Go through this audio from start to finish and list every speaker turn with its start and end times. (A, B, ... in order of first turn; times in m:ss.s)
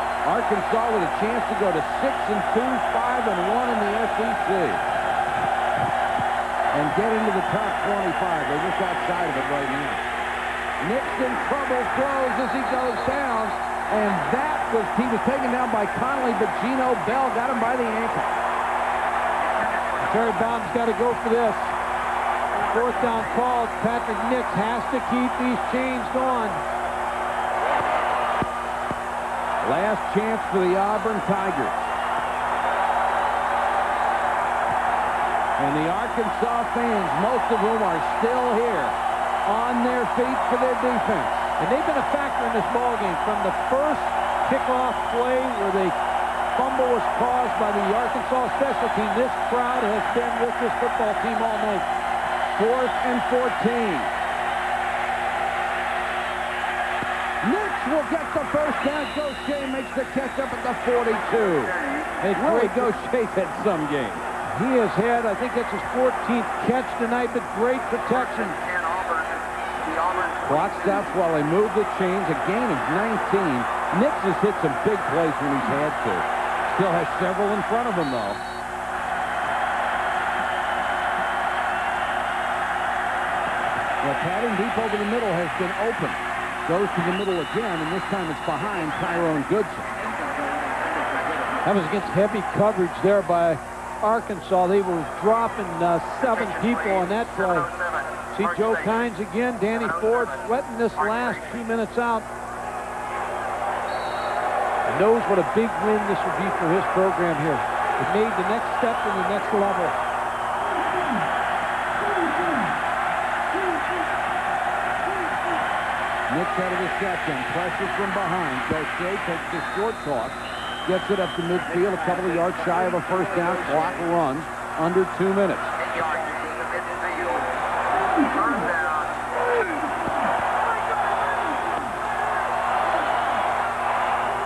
0:00.2-0:04.8 A
0:06.7-0:10.0 A
0:10.8-0:18.4 A
0:20.0-0:21.7 B
0:22.5-0:26.6 B
0:29.6-0:31.9 A
0:35.6-0:41.5 A
0:41.6-0:46.0 B
0:46.5-0:51.9 B
0:52.5-0:54.1 A
0:57.4-1:01.7 A
1:02.2-1:02.9 B
1:02.4-1:04.3 A
1:04.5-1:08.6 B
1:10.4-1:18.4 A
1:24.0-1:29.9 A
1:31.6-1:37.7 B
1:38.3-1:42.3 B
1:44.9-1:50.0 B
1:56.3-2:05.8 A